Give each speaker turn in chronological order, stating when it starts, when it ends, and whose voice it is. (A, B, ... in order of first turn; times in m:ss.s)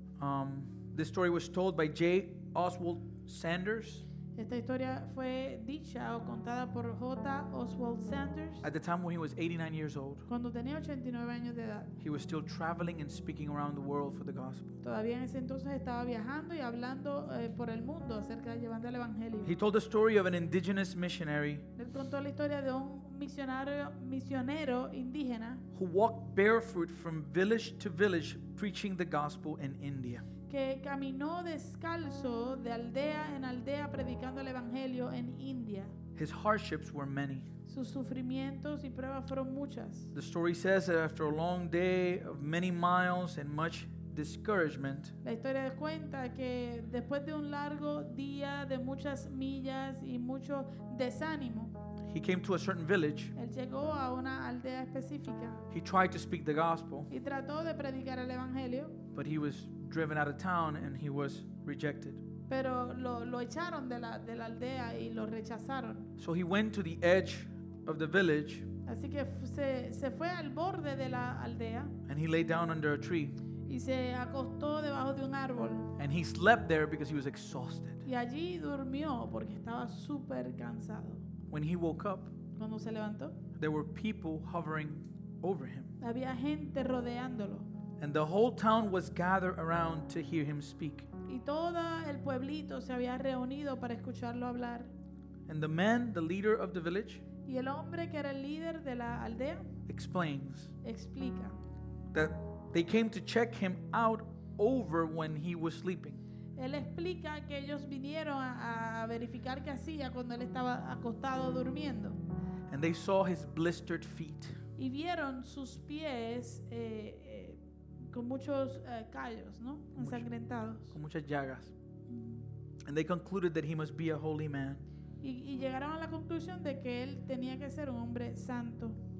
0:00.2-0:04.0 A
0:04.3-0:08.6 B
0:08.6-0:10.3 A
0:10.3-0:11.9 B
0:12.0-0:14.8 A
0:14.8-0:19.6 B
0:19.4-0:21.7 A
0:21.8-0:25.6 B
0:25.7-0:30.2 A
0:30.5-0:36.0 B
0:36.1-0:37.5 A
0:37.7-0:40.1 B
0:40.1-0:45.1 A
0:45.2-0:51.7 B
0:52.0-0:53.3 A
0:53.3-0:55.6 B
0:55.7-0:57.1 A
0:57.1-0:59.0 B
0:59.1-1:02.2 A
1:02.5-1:06.1 B
1:06.2-1:08.7 A
1:08.8-1:11.9 B
1:12.1-1:13.4 A
1:13.6-1:15.9 B
1:16.0-1:18.0 A
1:18.0-1:21.2 B
1:21.5-1:22.3 A
1:22.6-1:23.4 B
1:23.6-1:26.0 A
1:26.0-1:27.7 B
1:28.0-1:31.1 A
1:31.2-1:34.9 B
1:35.5-1:37.2 A
1:37.4-1:39.7 B
1:39.9-1:40.7 A
1:40.8-1:41.6 B
1:42.1-1:46.2 A
1:46.6-1:52.2 B
1:52.7-1:54.6 A
1:54.8-2:00.9 B
2:00.0-2:00.3 A
2:00.9-2:01.7 A
2:02.1-2:02.4 B
2:02.8-2:04.8 A
2:05.2-2:09.0 B